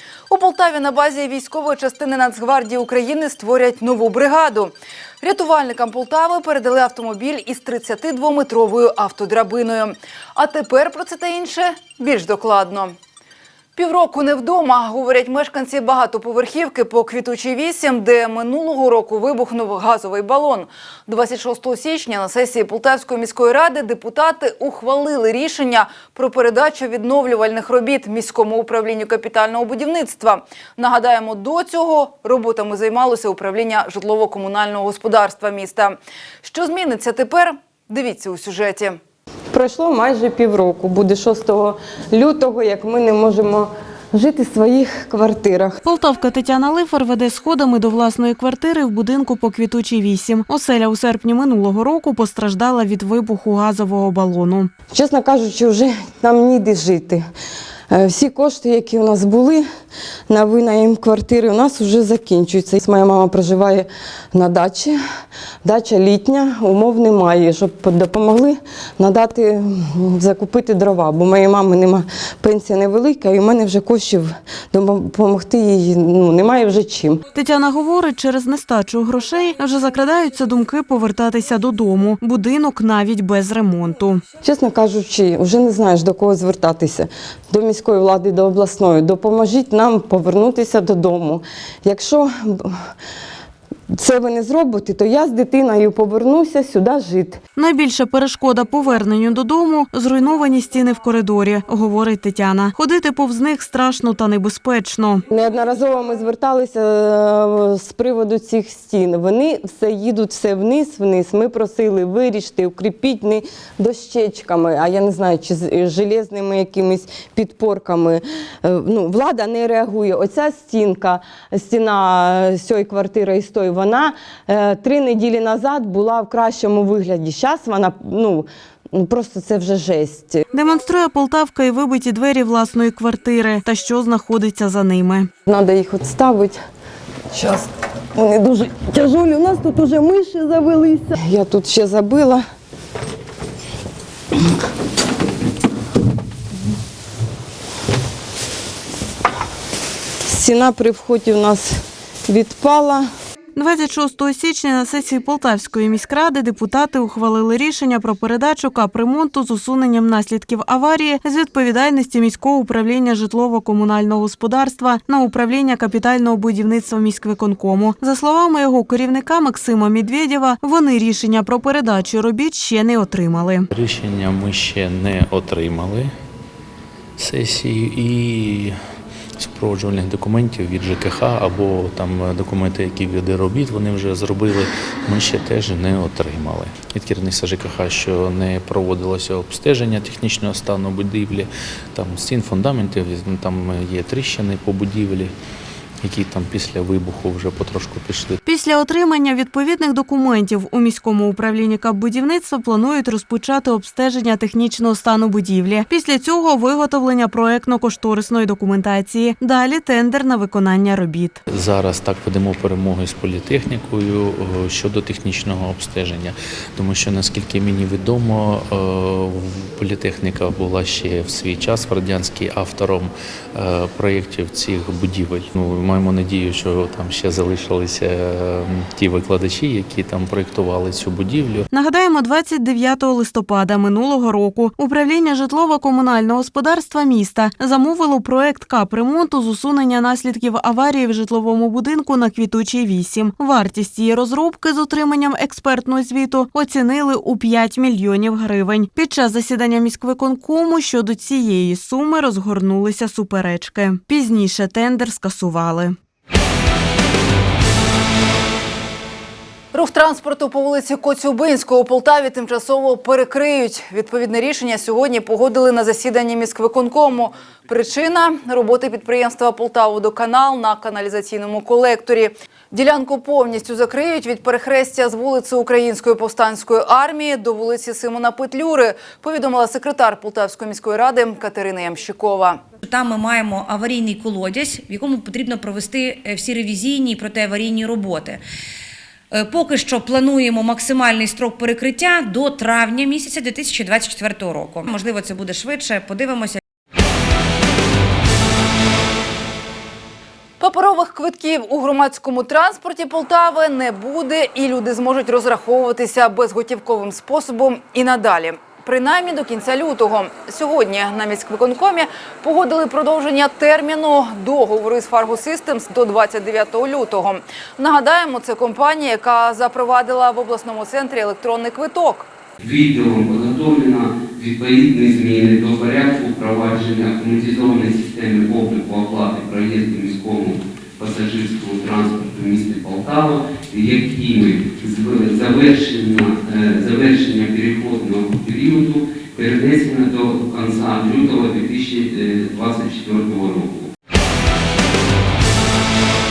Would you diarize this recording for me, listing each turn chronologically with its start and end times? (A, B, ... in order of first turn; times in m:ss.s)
0:00.3-0:12.9 A
0:13.8-0:39.0 A
0:39.5-0:45.8 B
0:45.8-0:54.7 C
0:54.9-0:57.2 B
0:57.9-0:59.6 B
1:00.3-1:05.0 B
1:05.6-1:17.2 B
1:17.4-1:24.2 C
1:24.4-1:32.7 B
1:34.0-1:37.4 B
1:37.6-1:45.2 C
1:45.3-2:10.4 B
2:10.5-2:15.3 C
2:15.5-2:16.6 B
2:17.3-2:22.4 B
2:30.3-2:31.8 B
2:32.3-2:33.1 B
2:33.6-2:53.7 C
2:53.7-2:56.1 D
2:57.2-2:58.7 D
2:59.4-3:15.3 D
3:16.0-3:18.4 D
3:18.4-3:31.4 C
3:31.5-3:51.6 D
3:51.7-4:16.0 C
4:19.7-4:42.6 A
4:42.8-4:48.4 E
4:49.3-4:56.6 E
5:00.6-5:22.3 A
5:22.6-5:43.9 F